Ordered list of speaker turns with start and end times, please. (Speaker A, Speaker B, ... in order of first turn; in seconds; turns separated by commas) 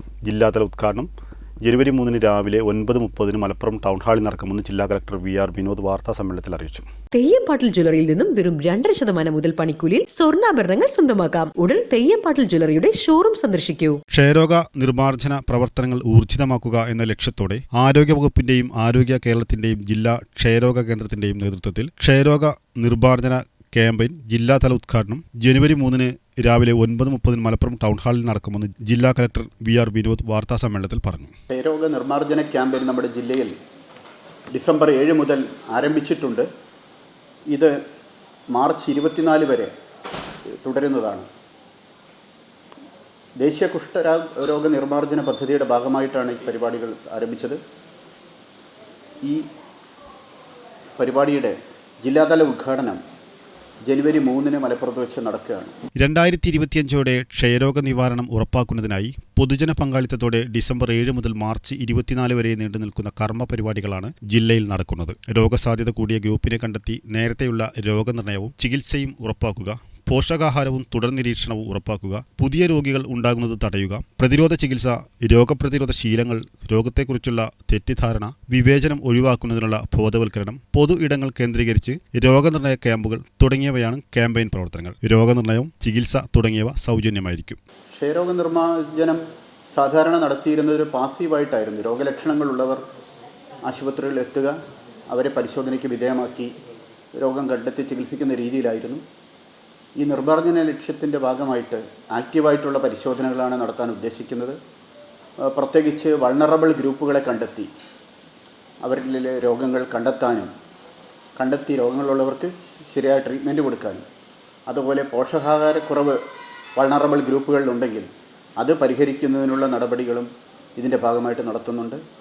Speaker A: 0.2-1.1, Speaker A: 1.6-6.9, Speaker B: 7.1-14.0, Speaker A: 14.1-31.3, Speaker C: 31.5-33.5, Speaker C: 34.5-36.5, Speaker C: 37.5-37.7, Speaker C: 38.5-39.7, Speaker C: 40.6-41.2, Speaker C: 43.4-47.6, Speaker C: 51.0-53.0, Speaker C: 53.9-55.7, Speaker A: 56.0-87.6, Speaker C: 87.9-89.2, Speaker C: 89.7-92.8, Speaker C: 93.7-94.5, Speaker C: 95.1-96.5, Speaker C: 97.2-99.0, Speaker C: 100.0-104.6, Speaker C: 105.5-107.7, Speaker C: 108.8-110.5, Speaker C: 111.3-114.0, Speaker C: 114.7-116.2, Speaker C: 116.8-122.0